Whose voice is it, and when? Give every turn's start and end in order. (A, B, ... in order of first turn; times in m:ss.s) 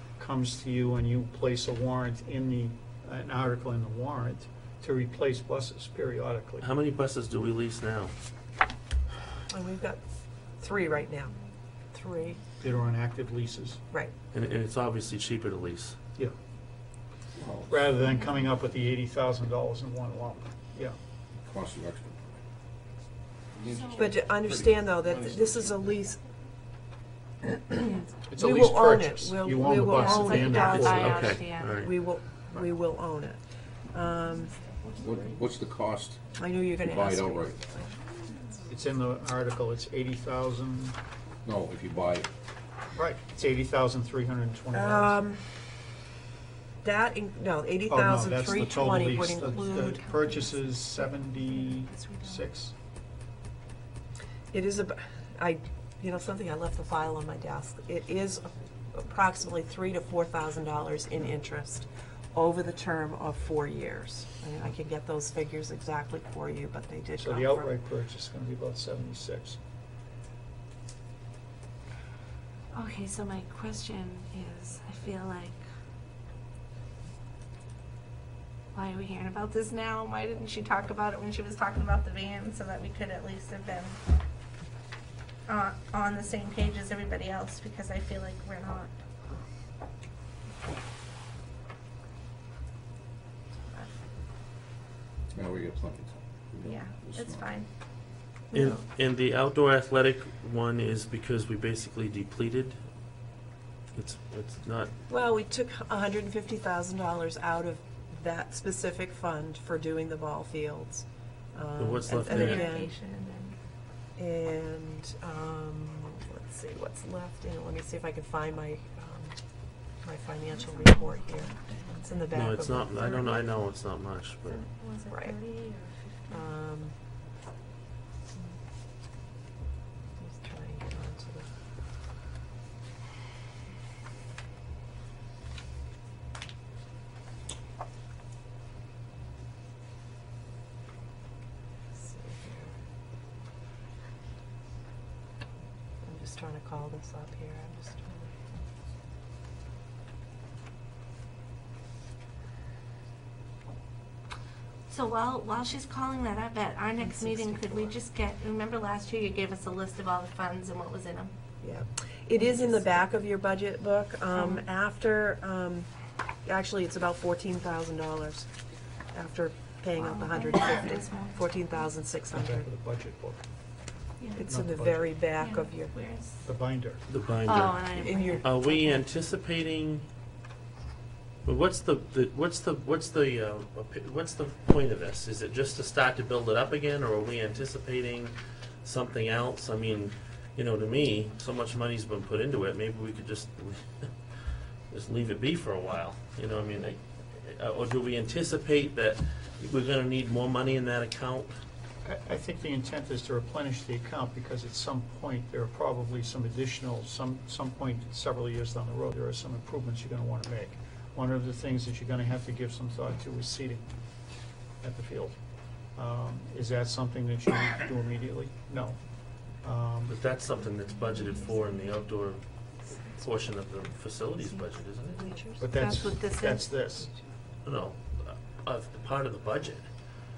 0:00.2-0:06.7 A
0:06.6-0:08.1 B
0:09.5-0:10.0 C
0:10.6-0:11.3 C
0:11.9-0:12.4 C
0:12.6-0:13.8 A
0:14.3-0:16.0 B
0:17.4-0:17.8 D
0:17.7-0:21.0 A
0:21.4-0:22.4 D
0:23.6-0:26.0 D
0:23.9-0:26.2 C
0:28.3-0:31.2 A
0:28.4-0:33.4 C
0:29.8-0:31.8 E
0:30.6-0:31.9 B
0:33.9-0:34.7 C
0:35.0-0:36.2 D
0:36.4-0:37.9 C
0:36.8-0:37.6 D
0:38.7-0:41.0 A
0:41.4-0:42.3 D
0:43.0-0:45.2 A
0:44.7-0:45.4 C
0:46.8-0:50.0 C
0:47.9-0:52.7 A
0:49.5-0:52.4 E
0:54.5-1:07.7 C
1:07.2-1:09.6 A
1:12.7-1:15.6 E
1:18.8-1:24.0 E
1:25.5-1:28.9 E
1:35.3-1:37.5 D
1:36.6-1:37.7 E
1:38.5-1:42.8 B
1:43.9-1:44.9 B
1:45.1-1:53.0 C
1:51.8-1:52.7 B
1:52.1-1:53.6 E
1:54.2-1:59.4 C
2:00.0-2:03.0 C
2:00.5-2:03.4 E
2:02.3-2:04.6 B
2:04.4-2:06.5 E
2:05.1-2:05.4 C
2:06.3-2:07.0 C
2:10.2-2:11.5 C
2:21.9-2:22.8 C
2:26.0-2:28.3 C
2:34.9-2:41.3 E
2:37.0-2:38.0 C
2:41.6-2:45.9 C
2:44.3-2:44.6 E
2:46.4-2:48.5 C
2:49.1-2:52.7 C
2:50.0-2:51.9 E
2:52.3-2:53.4 A
2:54.3-2:55.9 C
2:54.4-2:55.1 A
2:55.4-2:56.4 E
2:56.4-2:57.0 A
2:57.1-3:00.1 B
2:57.4-2:59.1 E
2:58.0-2:58.5 C
3:01.4-3:14.1 B
3:14.9-3:21.5 B
3:22.0-3:33.9 A
3:34.8-3:35.4 A
3:36.0-3:39.0 A
3:39.6-3:40.1 A
3:40.1-3:42.4 B
3:41.0-3:42.0 E
3:43.2-3:45.4 B
3:44.4-3:45.8 C
3:45.6-3:47.1 A
3:45.6-3:46.7 E
3:47.6-3:49.9 B